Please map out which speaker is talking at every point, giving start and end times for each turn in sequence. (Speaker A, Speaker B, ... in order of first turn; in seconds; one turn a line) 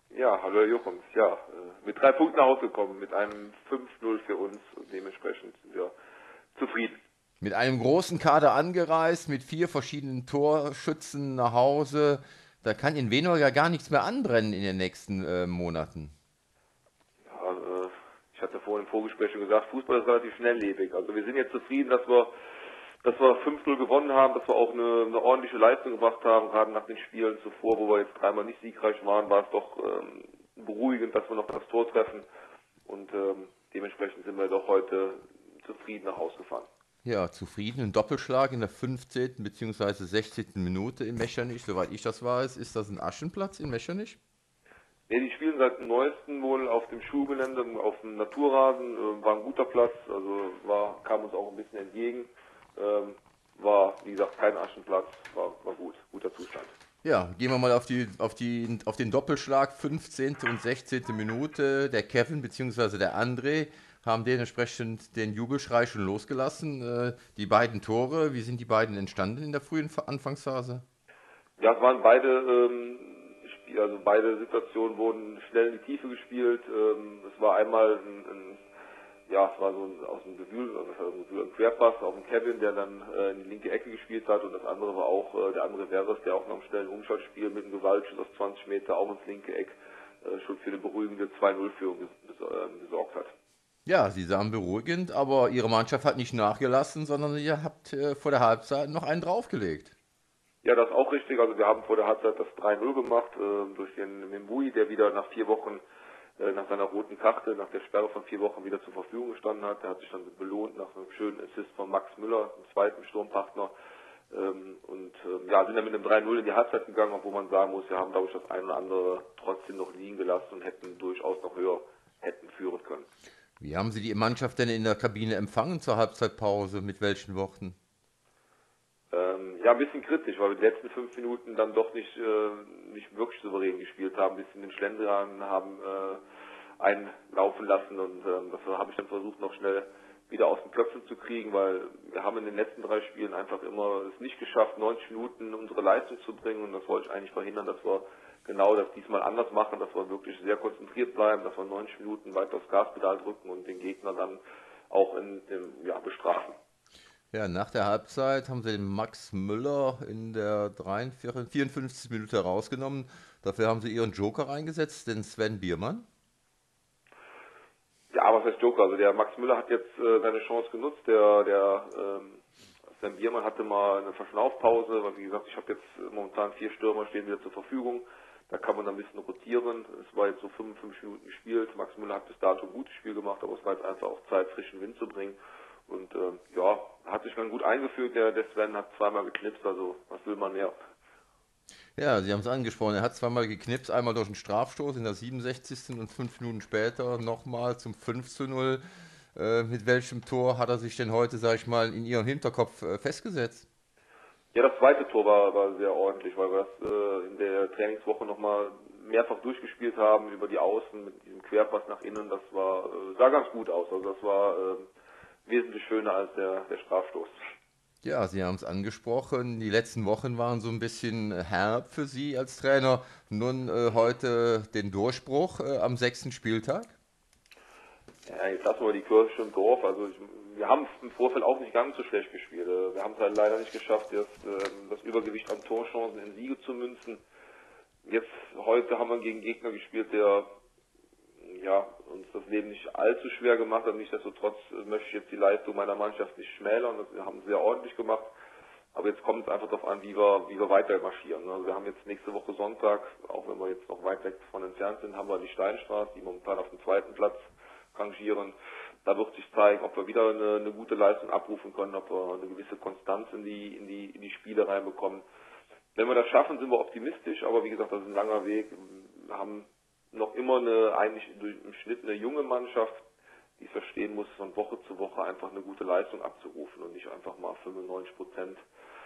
Speaker A: 0.1-5.9
Speaker A: 6.5-7.0
Speaker B: 7.4-16.1
Speaker A: 17.2-22.3
Speaker A: 23.0-32.3
Speaker A: 32.9-36.7
Speaker B: 37.0-44.2
Speaker A: 45.1-56.8
Speaker B: 57.0-70.8
Speaker A: 71.6-78.6
Speaker A: 79.3-93.3
Speaker B: 93.9-99.9
Speaker A: 100.6-105.8
Speaker A: 106.4-113.7
Speaker A: 114.3-123.1
Speaker B: 123.6-127.8
Speaker A: 129.1-136.2
Speaker A: 136.8-156.6
Speaker B: 157.3-166.1
Speaker A: 168.1-172.4
Speaker A: 173.0-190.8
Speaker B: 192.0-198.8
Speaker B: 199.3-203.7
Speaker A: 204.5-214.9
Speaker A: 215.5-217.4
Speaker B: 218.0-226.9
Speaker A: 228.3-237.2
Speaker A: 238.1-240.5
Speaker A: 241.4-248.3
Speaker A: 248.9-265.2
Speaker A: 265.9-273.0
Speaker A: 273.6-278.6